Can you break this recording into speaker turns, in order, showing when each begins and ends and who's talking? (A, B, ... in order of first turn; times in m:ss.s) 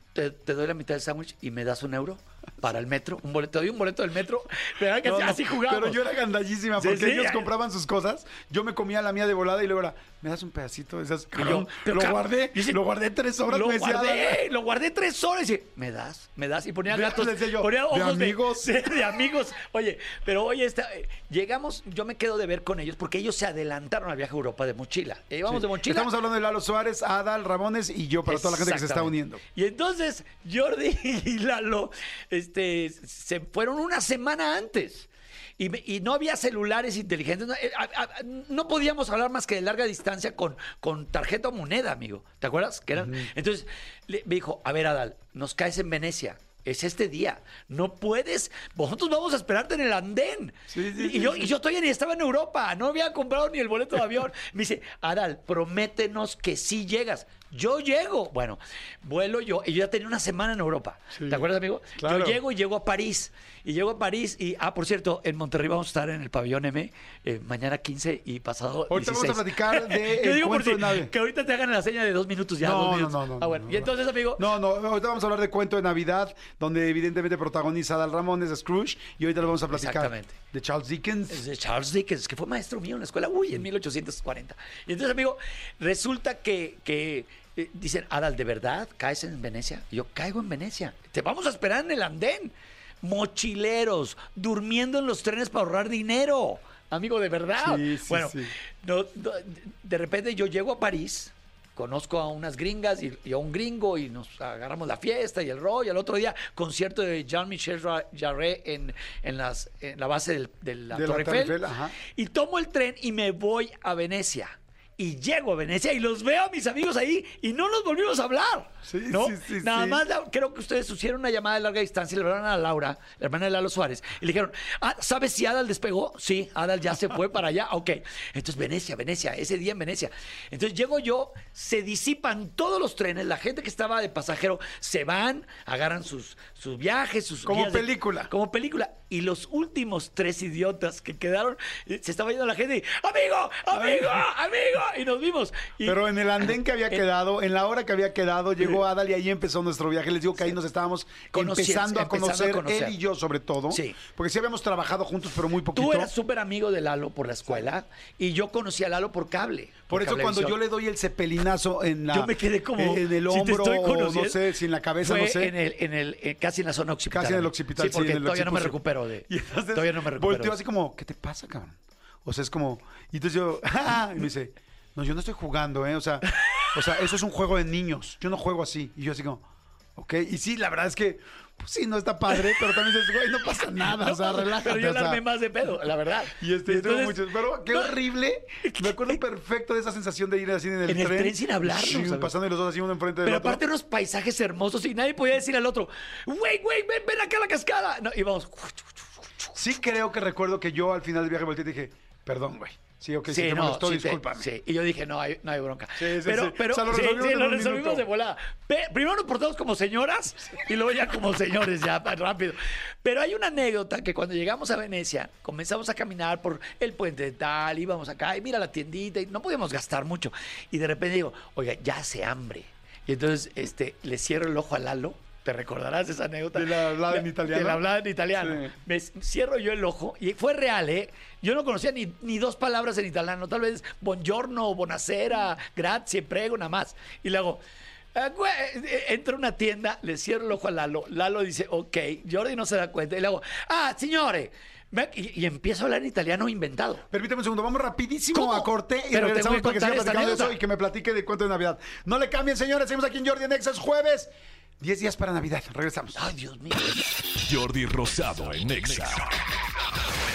0:00.1-0:06.0 A
0:05.0-0:14.4 B
0:06.8-0:07.5 A
0:11.3-0:12.8 A
0:13.5-0:26.1 A
0:16.9-0:18.7 B
0:25.5-0:29.4 B
0:28.3-1:14.5 A
0:43.0-0:43.3 B
0:50.7-0:51.5 B
1:01.1-1:01.4 B
1:02.0-1:02.4 B
1:08.9-1:11.1 B
1:12.6-1:21.4 B
1:19.7-1:20.4 A
1:21.3-2:27.0 A
1:37.6-1:38.5 B
1:50.9-1:51.9 B
1:58.8-2:00.0 B
2:17.5-2:18.3 B
2:23.7-2:24.3 B
2:25.8-2:36.1 B
2:31.3-2:33.0 A
2:33.7-2:34.0 A
2:35.7-2:40.6 A
2:39.9-2:45.6 B
2:42.1-2:50.6 A
2:47.1-2:59.4 B
2:56.3-2:56.7 A
3:00.0-3:05.2 B
3:02.3-3:02.8 A
3:03.4-3:08.0 A
3:06.4-3:13.6 B
3:08.6-3:09.2 A
3:10.9-3:12.3 A
3:13.2-3:19.6 A
3:19.6-3:24.5 B
3:23.3-3:57.6 A
3:26.0-3:28.1 B
3:46.5-3:48.7 B
3:58.1-4:07.1 A
4:07.1-4:16.2 B
4:08.3-4:10.6 A
4:16.2-4:17.3 A
4:17.4-4:19.5 C